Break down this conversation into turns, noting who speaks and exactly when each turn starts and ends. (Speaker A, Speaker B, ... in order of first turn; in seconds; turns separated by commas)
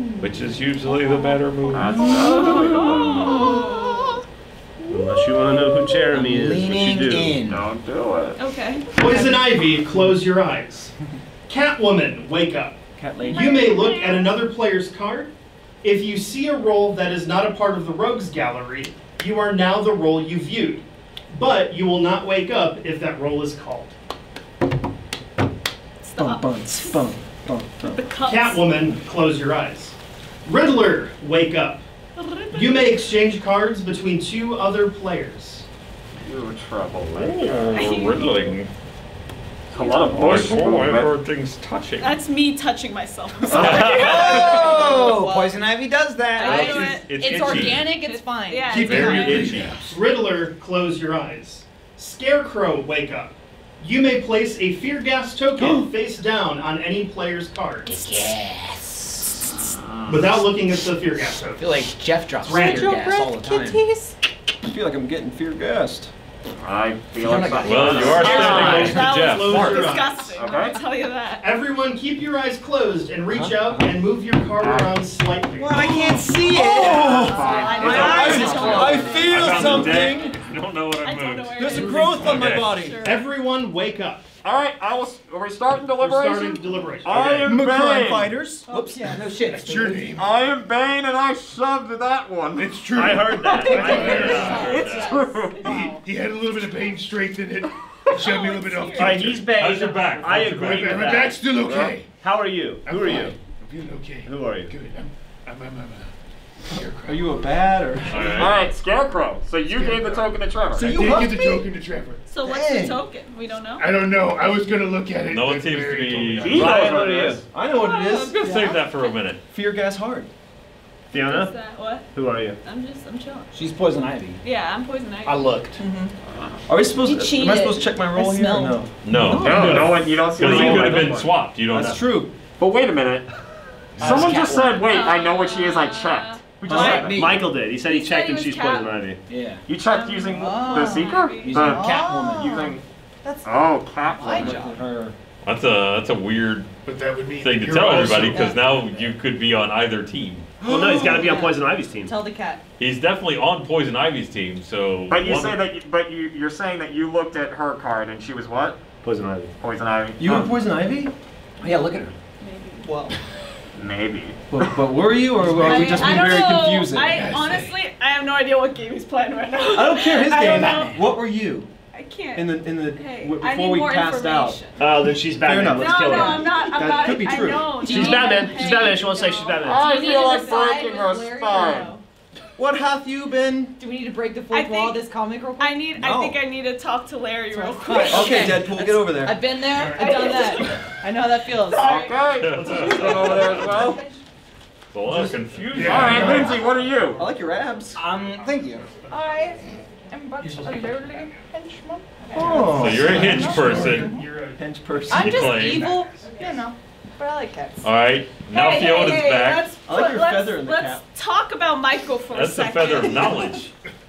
Speaker A: 0.2-2.1, Speaker B: 1.7-3.4, Speaker C: 1.9-4.2, Speaker D: 4.9-7.4, Speaker E: 6.1-7.6, Speaker B: 7.5-8.4, Speaker C: 8.4-8.9, Speaker F: 8.9-10.9, Speaker F: 11.5-15.3, Speaker G: 13.0-13.5, Speaker C: 13.2-14.3, Speaker F: 15.8-23.9, Speaker C: 26.0-27.1, Speaker G: 26.1-28.0, Speaker C: 27.9-28.6, Speaker F: 28.2-29.9, Speaker F: 30.4-31.8, Speaker C: 32.2-32.9, Speaker F: 32.5-35.6, Speaker B: 36.2-38.0, Speaker A: 37.0-38.7, Speaker C: 37.7-38.5, Speaker B: 39.7-41.1, Speaker C: 39.8-40.1, Speaker A: 40.0-42.2, Speaker C: 42.0-45.1, Speaker A: 43.5-44.7, Speaker G: 43.5-44.0, Speaker E: 43.7-47.0, Speaker H: 44.0-45.6, Speaker C: 46.4-49.3, Speaker H: 46.4-49.3, Speaker A: 46.4-48.0, Speaker G: 48.7-49.7, Speaker A: 48.8-49.8, Speaker I: 48.9-49.8, Speaker F: 49.8-58.0, Speaker G: 55.6-55.8, Speaker E: 57.9-59.8, Speaker B: 59.7-60.4, Speaker F: 60.1-61.8, Speaker E: 61.6-63.8, Speaker H: 62.4-64.1, Speaker F: 62.5-62.9, Speaker G: 64.6-66.1, Speaker B: 66.6-69.7, Speaker E: 67.1-68.8, Speaker A: 67.6-70.0, Speaker C: 68.2-71.5, Speaker F: 68.3-70.4, Speaker B: 70.3-70.8, Speaker F: 71.4-75.9, Speaker G: 73.3-73.7, Speaker B: 74.6-75.0, Speaker G: 75.6-80.3, Speaker B: 75.8-79.3, Speaker C: 76.5-80.2, Speaker A: 77.7-82.8, Speaker E: 78.0-78.5, Speaker I: 79.6-80.0, Speaker C: 81.0-83.3, Speaker G: 81.6-83.2, Speaker I: 81.6-82.6, Speaker F: 83.0-84.2, Speaker B: 84.4-88.4, Speaker F: 86.0-87.5, Speaker G: 87.4-88.9, Speaker C: 88.7-88.9, Speaker H: 88.7-89.4, Speaker E: 88.9-90.0, Speaker I: 89.5-90.3, Speaker B: 90.1-95.7, Speaker I: 92.5-94.8, Speaker D: 92.9-94.2, Speaker H: 93.6-96.0, Speaker C: 93.6-95.5, Speaker A: 93.9-95.2, Speaker I: 95.6-99.6, Speaker C: 98.1-99.3, Speaker D: 99.0-101.4, Speaker A: 99.5-101.1, Speaker I: 100.3-102.1, Speaker B: 101.6-101.9, Speaker D: 102.2-103.3, Speaker I: 102.8-106.1, Speaker D: 104.2-104.7, Speaker I: 106.7-107.4, Speaker G: 107.0-108.5, Speaker A: 108.1-108.6, Speaker B: 108.2-111.2, Speaker I: 109.7-112.2, Speaker G: 110.7-111.6, Speaker C: 112.2-113.9, Speaker G: 112.4-113.0, Speaker I: 113.8-116.8, Speaker A: 115.3-117.2, Speaker B: 116.4-117.4, Speaker D: 116.5-117.4, Speaker G: 117.3-118.4, Speaker C: 117.7-119.1, Speaker A: 118.4-119.4, Speaker H: 118.4-119.0, Speaker G: 119.5-120.3, Speaker D: 121.1-121.5, Speaker C: 121.1-123.5, Speaker D: 122.1-122.6, Speaker E: 123.5-124.4, Speaker C: 124.4-125.5, Speaker E: 125.2-125.8, Speaker H: 125.8-126.1, Speaker B: 126.3-126.6, Speaker G: 126.7-131.1, Speaker H: 127.0-128.8, Speaker A: 129.0-132.1, Speaker B: 129.3-131.4, Speaker G: 131.7-132.3, Speaker B: 132.6-133.3, Speaker B: 134.0-137.3, Speaker E: 134.0-134.8, Speaker G: 134.0-134.5, Speaker C: 134.8-136.4, Speaker E: 136.7-137.5, Speaker D: 136.7-139.2, Speaker G: 136.7-137.2, Speaker C: 137.8-139.0, Speaker E: 139.3-139.6, Speaker B: 139.7-142.8, Speaker C: 139.9-141.6, Speaker H: 140.3-142.7, Speaker E: 141.4-142.7, Speaker H: 143.2-143.5, Speaker B: 143.4-144.6, Speaker H: 144.1-144.8, Speaker E: 144.2-145.1, Speaker A: 145.4-146.7, Speaker I: 146.8-148.7, Speaker A: 147.4-150.5, Speaker H: 148.3-148.6, Speaker D: 150.6-152.2, Speaker I: 150.7-151.2, Speaker G: 150.7-151.3, Speaker H: 150.9-152.6, Speaker A: 152.8-155.6, Speaker B: 155.1-158.8, Speaker D: 159.0-159.5, Speaker B: 159.6-160.5, Speaker G: 160.2-161.1, Speaker E: 161.6-162.1, Speaker C: 162.4-162.8, Speaker B: 163.7-164.4, Speaker G: 164.5-167.2, Speaker C: 165.6-171.0, Speaker I: 166.0-166.4, Speaker I: 167.0-167.8, Speaker G: 169.7-171.7, Speaker H: 170.5-170.8, Speaker C: 171.9-174.8, Speaker G: 172.3-174.6, Speaker D: 174.8-176.7, Speaker G: 175.3-177.7, Speaker C: 175.7-180.9, Speaker H: 177.8-182.0, Speaker D: 177.8-179.8, Speaker B: 179.6-181.9, Speaker G: 182.6-183.8, Speaker H: 183.8-186.1, Speaker C: 184.5-185.1, Speaker C: 185.6-188.7, Speaker H: 187.5-194.1, Speaker G: 188.1-189.4, Speaker C: 189.7-190.9, Speaker B: 191.6-194.0, Speaker C: 191.7-194.1, Speaker A: 192.4-193.7, Speaker A: 194.9-196.5, Speaker G: 195.1-195.4, Speaker I: 195.7-196.6, Speaker B: 195.8-197.2, Speaker G: 196.1-196.5, Speaker G: 197.1-198.0, Speaker E: 197.9-198.9, Speaker H: 199.1-204.3, Speaker F: 200.4-201.0, Speaker G: 202.3-203.8, Speaker I: 202.6-204.1, Speaker A: 202.7-204.2, Speaker F: 204.0-206.6, Speaker G: 204.4-205.7, Speaker A: 205.1-205.9, Speaker H: 205.1-207.9, Speaker A: 207.8-209.8, Speaker C: 208.5-213.6, Speaker G: 209.8-211.0, Speaker A: 212.3-213.7